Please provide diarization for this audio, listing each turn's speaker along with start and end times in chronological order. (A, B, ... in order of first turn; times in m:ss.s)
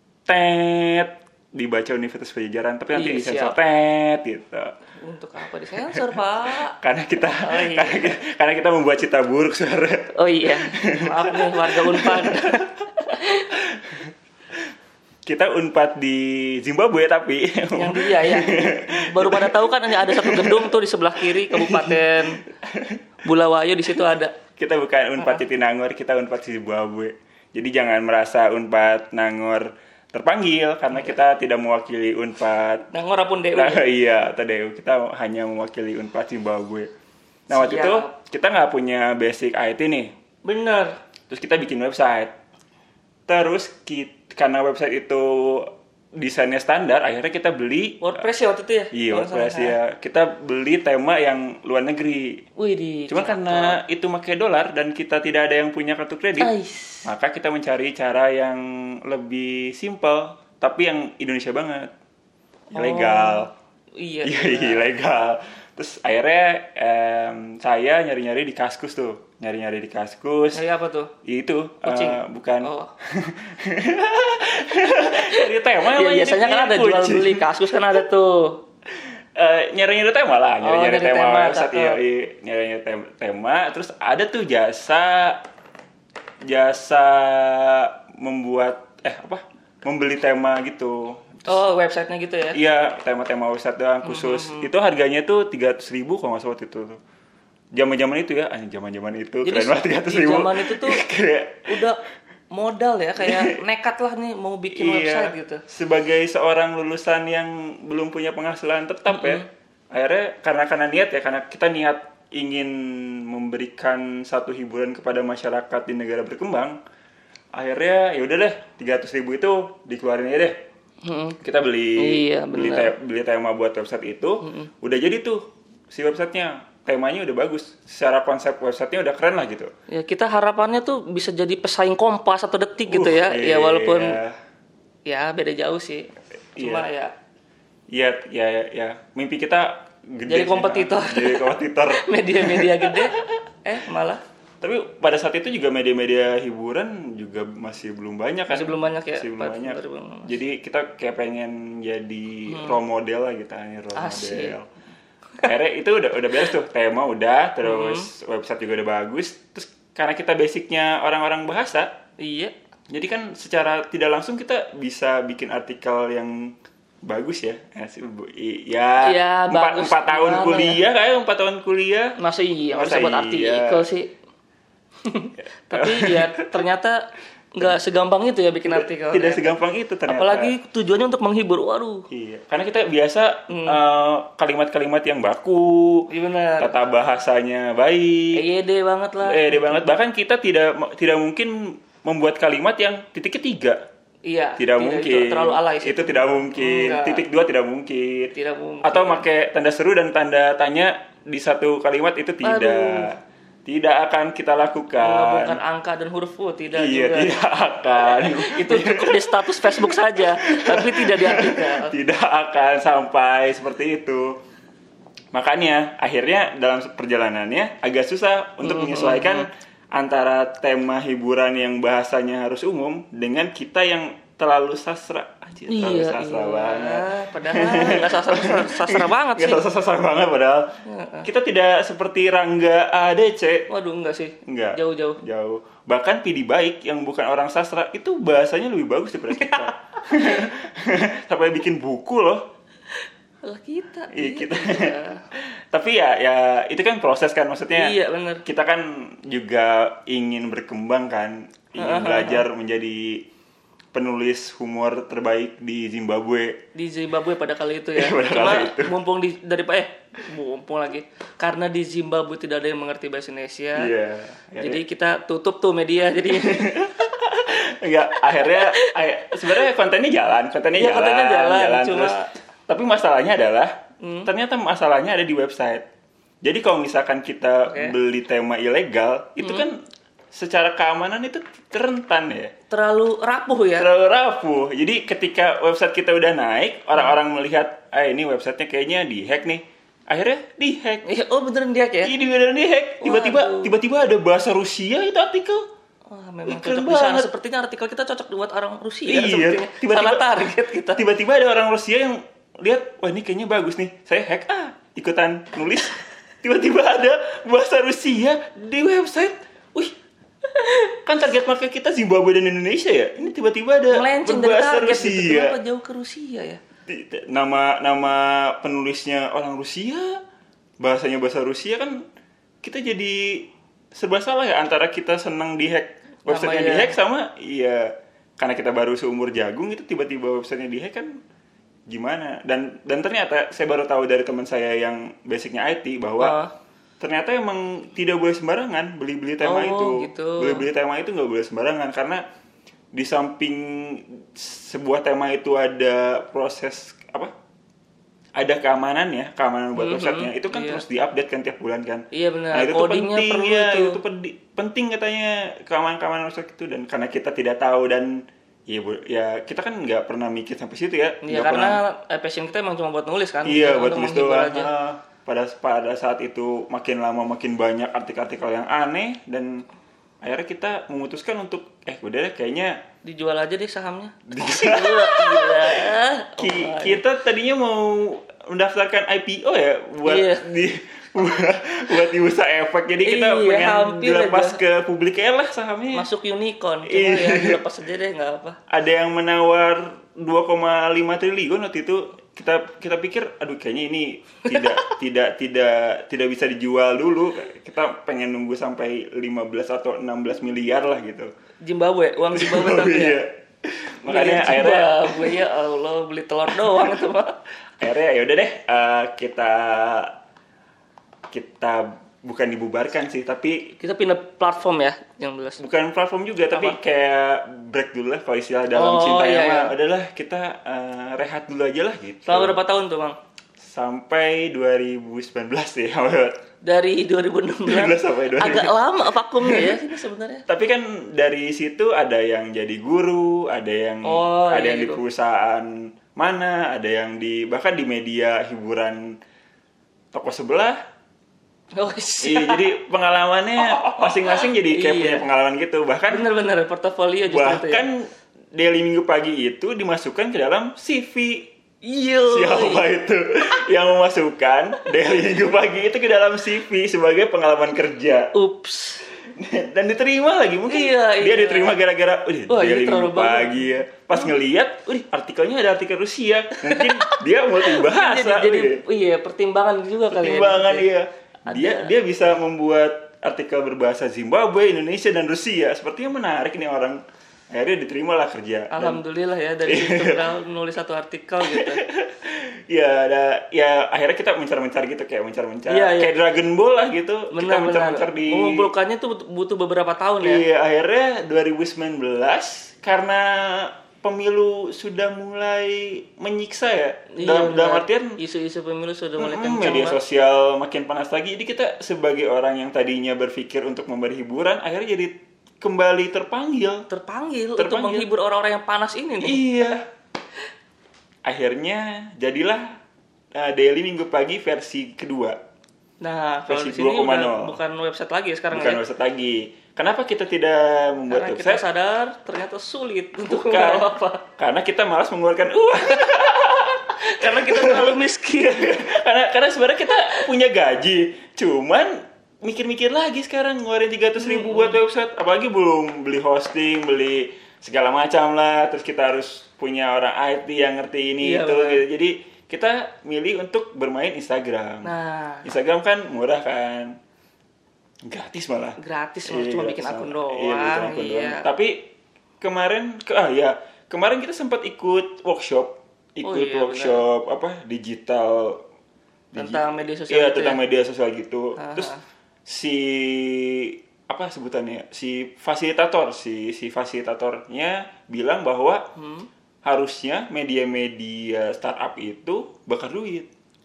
0:00.3-0:04.7 A
0:02.9-0:03.6 B
0:05.0-0:06.8 B
0:06.7-0:12.6 A
0:07.4-0:08.2 B
0:10.2-0:13.5 B
0:13.6-0:14.1 A
0:15.3-0:23.0 A
0:17.8-0:22.4 B
0:23.2-0:24.3 B
0:24.6-0:32.9 A
0:32.9-0:33.8 B
0:33.5-0:36.9 A
0:37.5-0:40.1 A
0:37.5-0:38.1 B
0:40.4-0:41.0 B
0:41.3-0:42.3 A
0:43.3-0:48.2 A
0:48.0-0:49.8 B
0:48.9-0:52.4 A
0:52.6-0:53.8 B
0:53.1-0:56.5 A
0:56.4-0:57.1 B
0:57.0-1:01.9 A
1:02.7-1:03.5 A
1:02.7-1:04.8 B
1:04.2-1:10.6 A
1:10.5-1:11.1 B
1:11.2-1:17.5 A
1:11.8-1:12.9 B
1:15.0-1:18.6 B
1:19.4-1:25.4 A
1:20.6-1:22.0 B
1:26.5-1:31.6 A
1:31.5-1:32.6 B
1:32.5-1:37.0 A
1:34.0-1:34.7 B
1:37.8-1:41.8 A
1:39.4-1:41.0 B
1:41.7-1:42.0 B
1:42.5-1:45.6 B
1:43.2-1:43.6 A
1:44.7-1:52.7 A
1:49.1-1:49.5 B
1:53.3-1:56.8 A
1:57.6-2:00.6 A
2:01.0-2:01.4 B
2:01.4-2:09.7 A
2:02.0-2:02.9 B
2:04.4-2:04.7 B
2:09.9-2:14.2 B
2:12.9-2:14.4 A
2:15.1-2:17.1 B
2:16.6-2:16.9 A
2:17.9-2:23.3 A
2:20.3-2:24.2 B
2:24.6-2:34.7 A
2:28.5-2:30.3 B
2:32.5-2:32.8 B
2:34.0-2:34.6 B
2:35.4-2:41.9 A
2:37.6-2:38.1 B
2:42.2-2:42.5 B
2:42.9-2:46.5 A
2:47.0-2:52.2 A
2:49.0-2:50.8 B
2:52.2-2:54.1 B
2:52.7-2:53.9 A
2:55.0-2:57.0 B
2:55.7-2:56.6 A
2:57.6-2:59.6 B
2:58.7-3:00.5 A
3:00.1-3:02.1 B
3:02.1-3:06.1 A
3:03.5-3:03.8 B
3:06.1-3:06.8 B
3:06.6-3:08.4 A
3:08.4-3:09.9 B
3:09.2-3:13.8 A
3:14.3-3:17.2 B
3:14.6-3:18.3 A
3:18.4-3:19.2 B
3:18.8-3:25.6 A
3:22.4-3:23.1 B
3:25.0-3:27.4 B
3:26.7-3:34.4 A
3:28.0-3:31.9 B
3:35.3-3:50.7 A
3:38.6-3:39.5 B
3:45.7-3:49.6 B
3:50.9-3:51.3 B
3:51.2-3:53.7 A
3:53.7-3:55.2 B
3:54.5-4:02.5 A
3:59.3-4:00.4 B
4:03.4-4:05.2 B
4:04.1-4:07.9 A
4:07.7-4:08.4 B
4:08.5-4:13.2 A
4:11.8-4:12.4 B
4:13.9-4:16.6 A
4:16.8-4:23.9 B
4:18.0-4:18.9 A
4:23.8-4:24.8 A
4:24.6-4:26.9 B
4:26.3-4:35.9 A
4:28.3-4:28.9 B
4:30.8-4:32.3 B
4:34.0-4:34.3 B
4:36.4-4:39.8 A
4:37.7-4:38.0 B
4:39.4-4:39.7 B
4:40.3-4:42.5 A
4:42.7-4:43.9 B
4:43.8-4:51.1 A
4:51.0-4:52.2 B
4:52.0-4:55.6 A
4:53.0-4:53.8 B
4:56.1-5:01.0 B
4:56.5-4:57.3 A
4:59.1-5:00.3 A
5:00.9-5:10.0 A
5:10.7-5:15.6 A
5:13.9-5:16.6 B
5:16.9-5:20.2 A
5:20.8-5:22.0 A
5:22.6-5:31.2 A
5:26.3-5:27.0 B
5:31.9-5:36.4 A
5:36.2-5:36.5 B
5:37.0-5:42.2 A
5:39.4-5:40.7 B
5:42.9-5:47.3 A
5:48.4-6:01.8 A
5:49.8-5:50.8 B
5:52.1-5:54.0 B
6:01.2-6:04.7 B
6:03.4-6:09.6 A
6:10.2-6:12.8 A
6:13.0-6:17.0 B
6:14.3-6:26.1 A
6:20.0-6:20.4 B
6:23.0-6:24.6 B
6:25.9-6:28.6 B
6:26.9-6:27.6 A
6:28.7-6:41.3 A
6:41.6-6:43.2 B
6:42.3-6:45.4 A
6:44.1-6:47.4 B
6:46.5-6:47.0 A
6:47.8-6:50.1 A
6:51.3-6:53.7 A
6:53.8-6:55.6 B
6:55.6-7:02.6 A
6:56.5-6:56.8 B
6:58.7-6:59.7 B
7:02.2-7:03.2 B
7:03.6-7:06.4 A
7:06.7-7:10.4 B
7:07.6-7:09.8 A
7:10.5-7:19.2 A
7:14.0-7:15.0 B
7:20.1-7:20.8 A
7:21.8-7:22.7 B
7:22.2-7:26.3 A
7:23.6-7:25.2 B
7:26.1-7:27.9 B
7:27.3-7:28.0 A
7:28.6-7:31.5 A
7:31.8-7:32.8 B
7:32.3-7:38.4 A
7:38.3-7:39.1 B
7:39.3-7:48.8 A
7:40.7-7:41.8 B
7:42.5-7:44.4 B
7:46.6-7:50.9 B
7:50.1-7:57.0 A
7:51.5-7:52.0 B
7:57.5-7:59.0 A
7:58.7-8:01.8 B
7:59.6-8:00.3 A
8:01.5-8:08.7 A
8:05.7-8:06.1 B
8:07.3-8:10.5 B
8:10.2-8:18.2 A
8:17.1-8:20.0 B
8:19.2-8:26.8 A
8:26.9-8:29.5 B
8:27.6-8:28.1 A
8:29.2-8:29.8 A
8:31.3-8:32.8 A
8:33.4-8:35.4 A
8:36.0-8:38.8 B
8:36.5-8:37.6 A
8:38.5-8:41.6 A
8:41.1-8:44.2 B
8:43.3-9:07.0 A
8:47.0-8:48.8 B
8:54.2-8:54.8 B
9:01.2-9:01.8 B
9:04.8-9:05.5 B
9:08.1-9:18.6 A
9:08.8-9:11.5 B
9:16.2-9:17.0 B
9:19.3-9:21.9 A
9:19.4-9:20.6 B
9:21.6-9:22.0 B
9:22.5-9:28.8 A
9:29.0-9:29.3 B
9:29.6-9:33.3 A